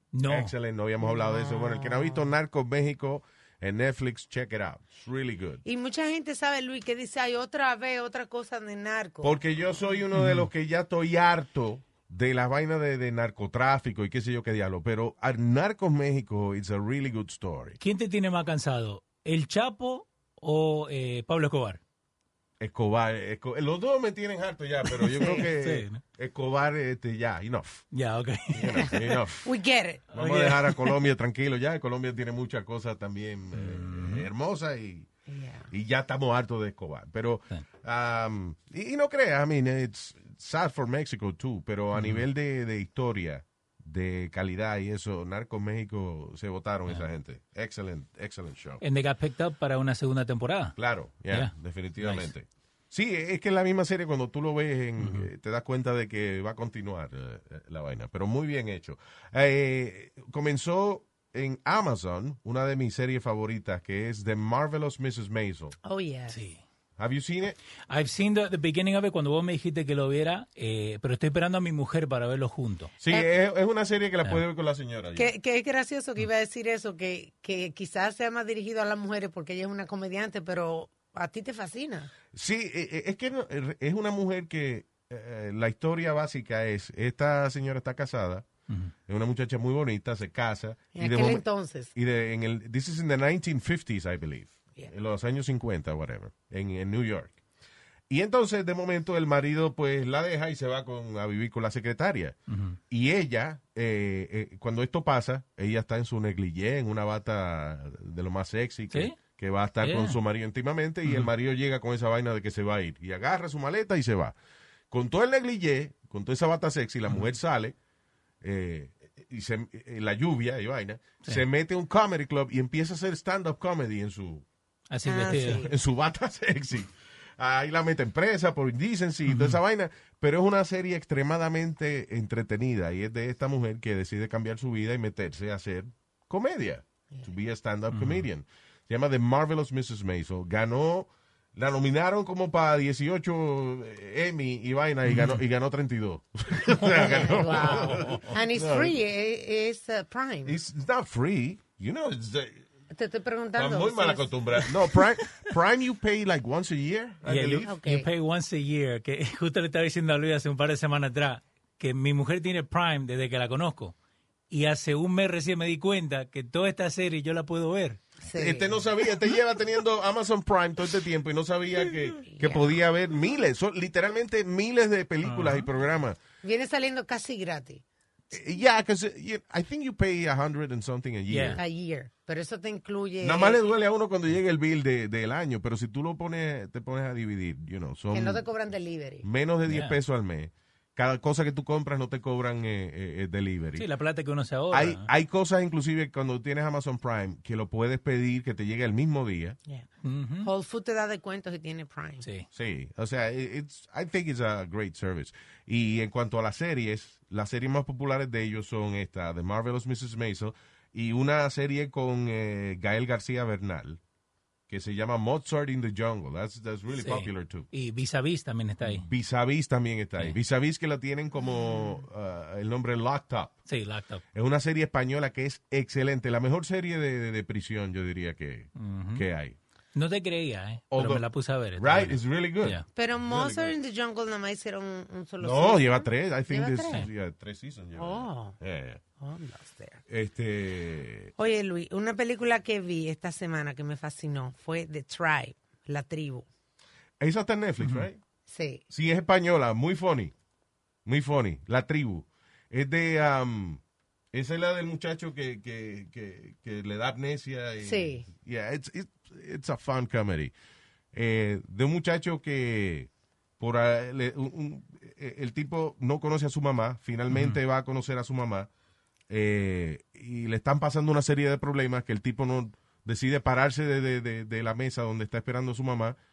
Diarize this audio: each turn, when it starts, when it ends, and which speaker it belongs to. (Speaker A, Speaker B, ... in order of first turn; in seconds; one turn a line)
Speaker A: 0.1-0.5
Speaker B: 0.3-5.6
Speaker C: 1.0-2.4
Speaker C: 5.7-9.4
Speaker B: 9.2-17.8
Speaker A: 10.1-10.5
Speaker A: 17.8-21.8
Speaker B: 22.6-27.8
Speaker A: 24.9-26.0
Speaker C: 25.2-25.5
Speaker A: 27.9-29.2
Speaker B: 28.5-29.5
Speaker C: 28.7-30.1
Speaker B: 30.1-35.1
Speaker A: 30.1-31.0
Speaker A: 33.5-34.3
Speaker C: 35.3-35.7
Speaker B: 35.7-48.8
Speaker A: 41.9-42.2
Speaker A: 48.8-52.3
Speaker B: 50.8-65.8
Speaker A: 55.0-55.3
Speaker C: 65.8-66.4
Speaker A: 66.3-66.6
Speaker B: 67.0-67.6
Speaker A: 67.9-72.9
Speaker B: 73.0-75.3
Speaker C: 73.1-73.3
Speaker C: 75.2-82.1
Speaker B: 82.3-88.5
Speaker B: 89.1-97.4
Speaker C: 91.0-91.9
Speaker B: 98.1-102.4
Speaker A: 102.5-102.8
Speaker B: 102.9-114.4
Speaker A: 108.9-109.2
Speaker A: 109.8-110.2
Speaker A: 111.0-111.3
Speaker B: 114.9-117.8
Speaker B: 118.4-124.5
Speaker A: 124.9-125.7
Speaker C: 125.0-125.7
Speaker B: 125.2-149.0
Speaker A: 129.3-129.6
Speaker A: 137.9-138.3
Speaker A: 145.1-145.4
Speaker A: 146.7-148.3
Speaker C: 146.8-150.6
Speaker B: 150.4-152.6
Speaker C: 152.9-154.3
Speaker B: 153.6-157.7
Speaker A: 154.6-155.4
Speaker A: 157.2-163.9
Speaker C: 157.7-158.1
Speaker A: 164.5-168.0
Speaker C: 168.2-168.8
Speaker B: 168.4-176.2
Speaker C: 172.3-172.8
Speaker A: 175.2-175.7
Speaker C: 176.4-177.8
Speaker B: 178.3-181.6
Speaker A: 181.3-181.6
Speaker C: 181.6-183.6
Speaker B: 183.2-188.5
Speaker C: 188.1-189.3
Speaker B: 189.2-193.9
Speaker A: 189.7-190.0
Speaker A: 193.8-195.1
Speaker B: 194.7-199.6
Speaker A: 200.0-200.5
Speaker C: 200.4-202.3
Speaker A: 202.2-202.5
Speaker B: 202.5-214.0
Speaker B: 214.7-217.7
Speaker A: 216.9-219.1
Speaker B: 218.8-223.6
Speaker A: 223.7-224.2
Speaker B: 224.3-229.6
Speaker A: 228.8-229.3
Speaker A: 229.9-232.8
Speaker B: 230.9-233.8
Speaker C: 232.9-237.1
Speaker B: 235.4-239.0
Speaker C: 238.0-238.6
Speaker C: 239.2-240.0
Speaker B: 240.1-241.3
Speaker C: 241.4-246.5
Speaker B: 247.2-248.2
Speaker A: 247.8-248.1
Speaker C: 248.5-248.8
Speaker B: 248.9-250.3
Speaker B: 251.1-253.8
Speaker B: 254.3-260.5
Speaker C: 257.8-258.3
Speaker B: 261.1-268.7
Speaker A: 267.3-267.6
Speaker B: 269.3-276.2